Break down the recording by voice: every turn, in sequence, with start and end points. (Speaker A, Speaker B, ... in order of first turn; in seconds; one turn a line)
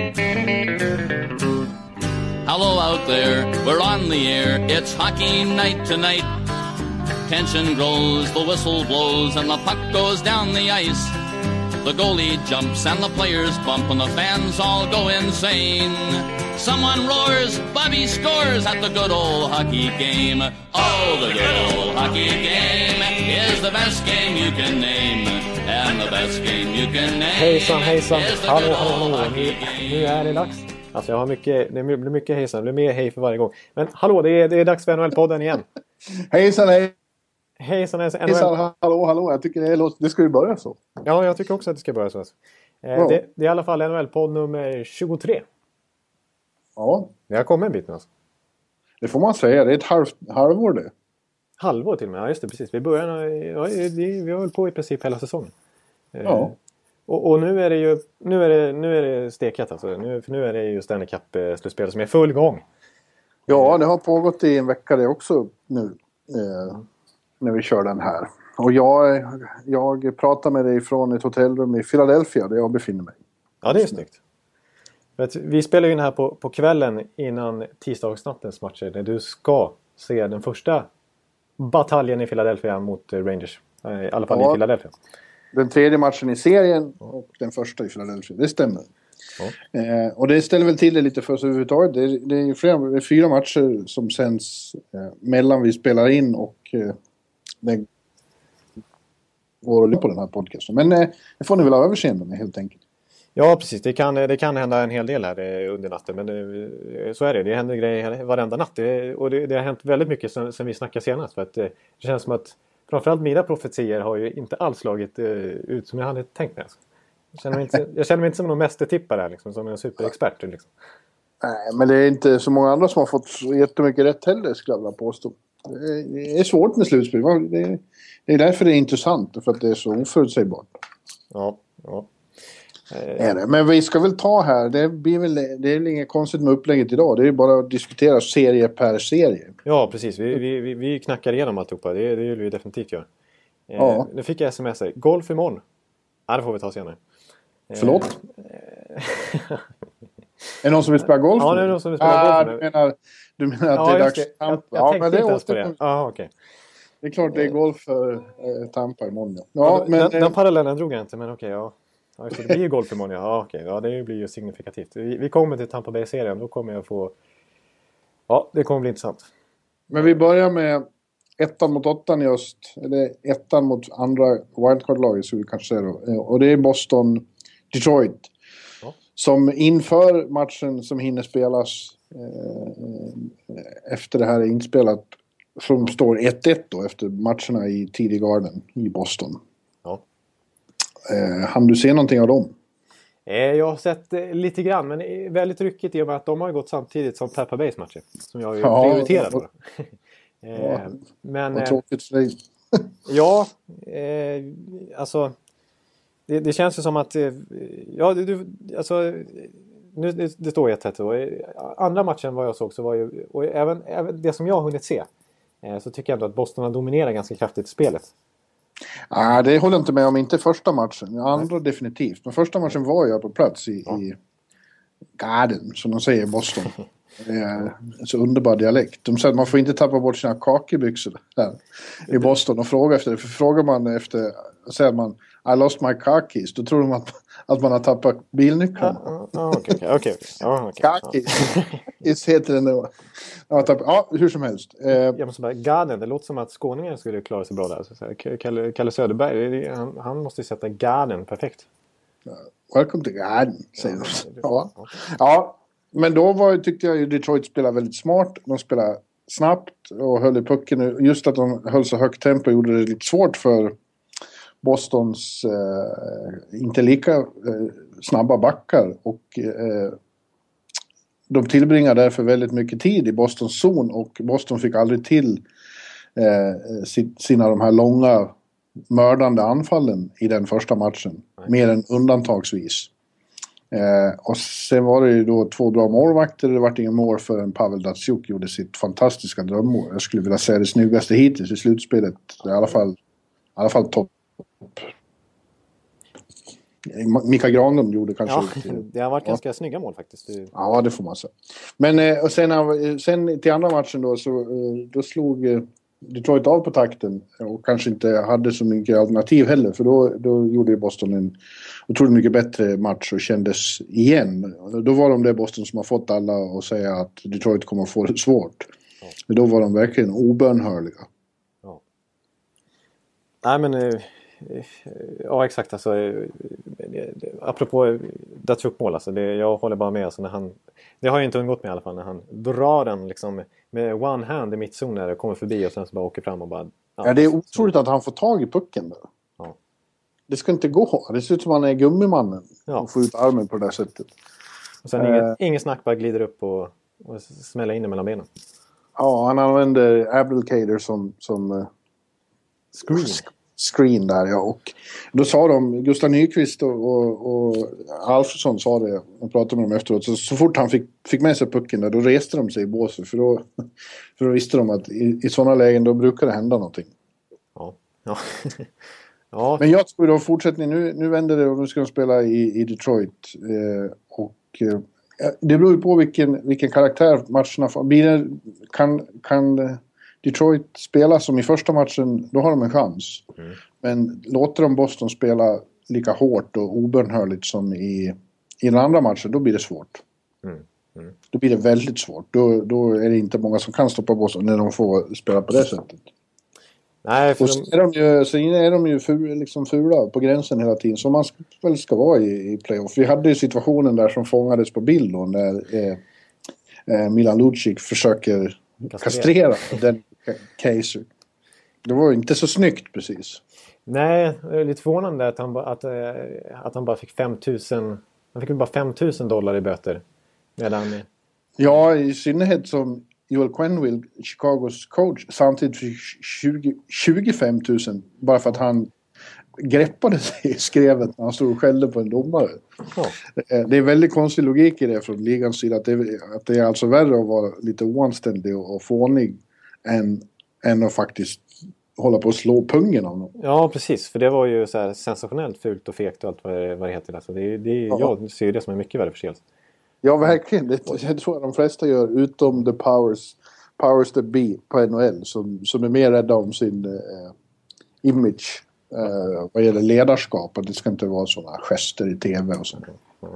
Speaker A: 2.4-6.3
Speaker A: 7.2-11.2
Speaker A: 11.8-30.0
Speaker B: 27.3-35.6
Speaker C: 36.1-36.9
Speaker B: 37.6-38.6
Speaker C: 38.2-40.8
Speaker B: 41.0-45.4
Speaker C: 42.9-43.2
Speaker C: 46.8-47.1
Speaker B: 47.3-48.1
Speaker C: 49.0-50.9
Speaker B: 51.6-55.5
Speaker B: 56.1-56.5
Speaker C: 56.2-56.5
Speaker B: 57.1-62.6
Speaker C: 63.5-66.8
Speaker B: 63.5-63.8
Speaker C: 67.4-73.2
Speaker B: 73.6-74.2
Speaker C: 73.7-74.0
Speaker B: 75.2-80.9
Speaker B: 81.6-84.9
Speaker C: 84.3-84.6
Speaker C: 85.5-88.9
Speaker C: 89.6-97.0
Speaker C: 97.6-97.9
Speaker C: 99.6-102.8
Speaker B: 103.3-116.8
Speaker B: 117.3-120.7
Speaker C: 121.4-130.7
Speaker B: 131.3-132.1
Speaker B: 132.9-133.2
Speaker C: 133.2-139.5
Speaker B: 139.6-143.1
Speaker B: 143.7-145.6
Speaker C: 143.8-144.1
Speaker B: 146.3-147.0
Speaker B: 147.7-149.6
Speaker C: 147.8-148.1
Speaker C: 150.6-155.8
Speaker B: 151.4-152.6
Speaker B: 153.7-156.3
Speaker C: 157.0-160.3
Speaker B: 159.6-167.1
Speaker B: 168.3-169.3
Speaker C: 169.9-170.8
Speaker C: 171.4-178.3
Speaker C: 179.2-189.4
Speaker C: 191.1-192.5
Speaker B: 193.2-199.9
Speaker C: 198.6-199.4
Speaker B: 200.4-201.8
Speaker C: 200.6-200.9
Speaker C: 201.5-202.9
Speaker B: 203.1-205.3
Speaker B: 206.3-215.1
Speaker B: 215.6-218.1
Speaker C: 219.1-224.2
Speaker C: 225.2-239.1
Speaker B: 238.8-241.8
Speaker C: 240.8-245.2
Speaker B: 244.9-251.7
Speaker C: 252.3-263.8
Speaker B: 253.9-254.9
Speaker C: 264.6-270.0
Speaker C: 271.3-275.4
Speaker C: 276.1-278.3
Speaker C: 278.9-282.9
Speaker C: 283.7-293.0
Speaker C: 293.6-294.9
Speaker C: 296.8-299.4
Speaker B: 298.2-300.5
Speaker C: 300.5-311.4
Speaker C: 311.9-318.7
Speaker C: 319.3-321.1
Speaker B: 323.4-337.7
Speaker C: 337.0-339.0
Speaker C: 340.3-344.1
Speaker B: 344.8-348.3
Speaker C: 345.0-345.4
Speaker C: 349.0-351.7
Speaker C: 352.8-363.6
Speaker C: 364.2-366.9
Speaker B: 367.6-368.7
Speaker B: 369.3-369.6
Speaker C: 369.6-383.3
Speaker C: 383.8-390.0
Speaker B: 390.4-391.1
Speaker C: 391.3-396.1
Speaker B: 397.0-397.7
Speaker C: 397.4-406.0
Speaker C: 406.9-411.1
Speaker B: 408.9-409.8
Speaker C: 411.8-413.4
Speaker B: 413.9-420.0
Speaker B: 420.6-421.1
Speaker C: 421.6-428.9
Speaker C: 429.6-432.6
Speaker C: 433.3-443.3
Speaker B: 443.4-449.4
Speaker C: 450.0-457.3
Speaker C: 458.0-462.9